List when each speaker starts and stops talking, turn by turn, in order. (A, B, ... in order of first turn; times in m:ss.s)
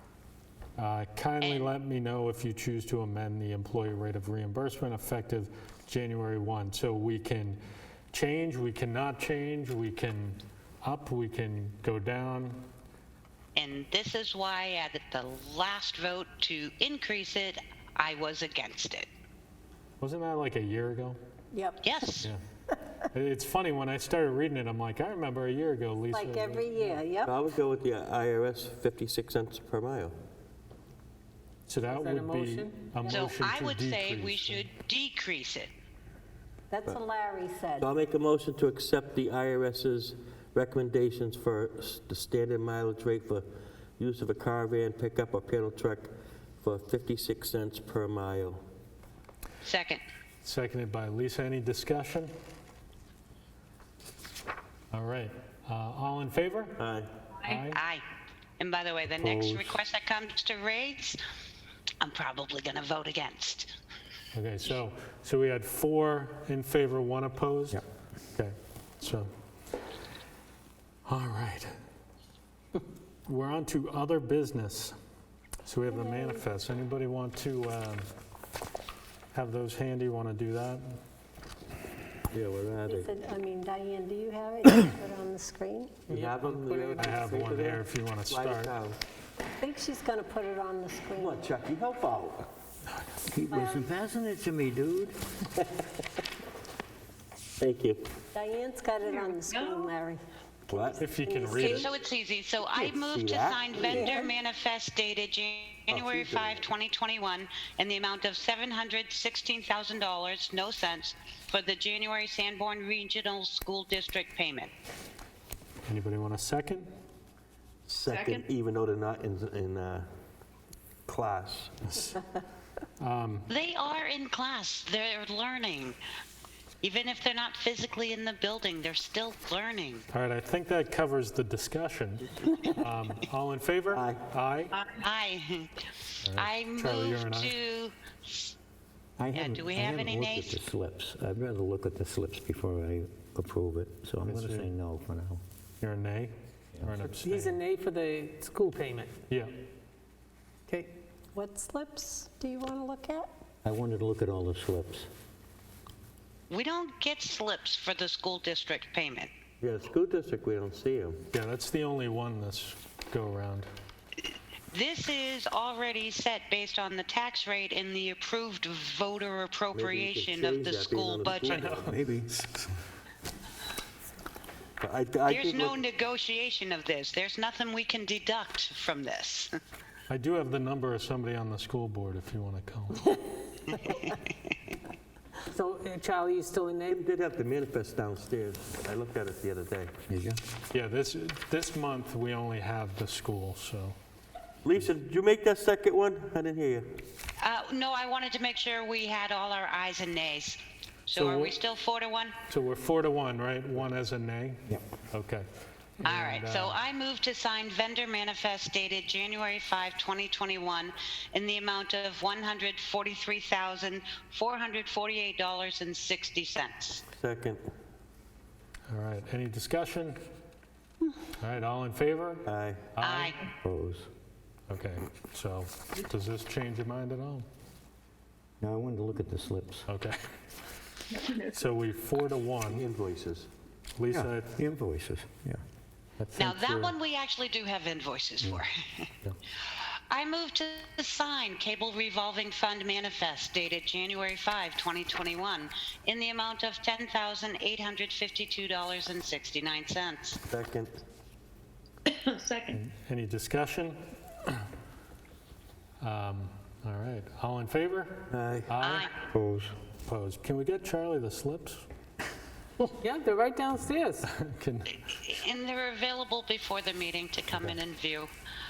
0:00.8-0:07.6 A
0:01.4-0:01.7 B
0:08.1-0:12.7 A
0:13.6-0:19.1 B
0:20.0-0:21.2 A
0:21.5-0:21.9 C
0:21.8-0:22.3 B
0:23.1-0:27.0 A
0:26.1-0:27.3 C
0:27.2-0:30.1 D
0:31.7-0:34.6 A
0:31.8-0:33.3 E
0:33.1-0:35.7 B
0:36.7-0:37.9 C
0:37.8-0:43.4 D
0:44.0-0:46.1 D
0:46.6-0:48.6 D
0:49.6-0:50.0 B
0:50.4-0:52.3 A
0:54.9-0:56.8 A
0:56.8-0:57.1 D
0:57.4-0:57.8 A
0:57.4-0:58.0 B
0:58.6-1:01.2 B
0:59.1-0:59.8 A
1:02.0-1:03.7 B
1:04.3-1:07.8 A
1:08.3-1:09.3 A
1:11.0-1:11.7 A
1:13.2-1:15.0 A
1:15.6-1:18.1 A
1:15.9-1:16.4 C
1:19.3-1:21.0 A
1:22.3-1:23.1 D
1:22.8-1:26.1 C
1:26.1-1:27.0 E
1:26.1-1:29.0 D
1:27.0-1:28.7 A
1:29.6-1:31.4 C
1:31.1-1:32.5 D
1:33.3-1:35.2 F
1:33.5-1:33.8 C
1:37.6-1:38.0 D
1:38.3-1:41.9 C
1:40.7-1:41.0 D
1:41.0-1:41.9 A
1:41.6-1:54.7 B
1:42.7-1:44.1 D
1:43.9-1:44.3 C
1:45.9-1:46.7 D
1:55.8-1:56.9 A
1:57.9-2:00.0 D
2:01.1-2:02.0 D
2:03.0-2:03.5 A
2:03.5-2:06.0 B
2:06.8-2:10.0 B
2:10.1-2:14.7 A
2:13.9-2:14.2 D
2:14.7-2:15.8 B
2:16.2-2:17.5 A
2:16.4-2:18.5 B
2:19.2-2:25.4 F
2:19.3-2:20.6 B
2:24.3-2:24.7 A
2:25.8-2:27.6 A
2:26.7-2:27.0 F
2:27.2-2:29.1 E
2:31.3-2:33.3 C
2:33.6-2:35.1 F
2:36.5-2:39.3 B
2:39.6-2:41.2 D
2:41.3-2:43.7 A
2:44.7-2:51.7 B
2:49.7-2:51.9 D
2:51.5-2:52.6 A
2:51.8-2:52.3 F
2:54.8-2:55.8 D
2:55.2-2:59.6 B
3:00.1-3:03.1 A
3:03.7-3:04.1 B
3:05.5-3:07.0 E
3:06.8-3:09.9 D
3:10.1-3:10.4 F
3:10.7-3:14.0 A
3:14.6-3:16.9 D
3:17.4-3:22.3 B
3:21.1-3:21.6 A
3:22.5-3:25.5 A
3:26.0-3:26.8 A
3:26.0-3:37.0 B
3:37.1-3:37.6 D
3:38.9-3:40.2 A
3:41.4-3:43.3 A
3:42.4-3:42.9 D
3:43.0-3:43.5 B
3:43.6-3:44.1 F
3:44.7-3:47.4 A
3:48.6-3:49.9 F
3:49.9-3:50.2 A
3:51.2-3:52.9 A
3:52.6-3:53.5 D
3:54.0-3:54.6 A
3:54.1-3:55.6 F
3:56.2-3:56.9 A
3:56.4-3:59.1 B
3:59.7-4:10.4 B
4:10.5-4:10.9 D
4:12.7-4:14.6 A
4:16.0-4:19.1 A
4:18.3-4:18.7 D
4:18.8-4:19.1 B
4:19.3-4:19.7 F
4:20.0-4:21.8 A
4:22.8-4:24.3 E
4:24.2-4:24.9 A
4:25.1-4:28.3 B
4:27.5-4:27.8 A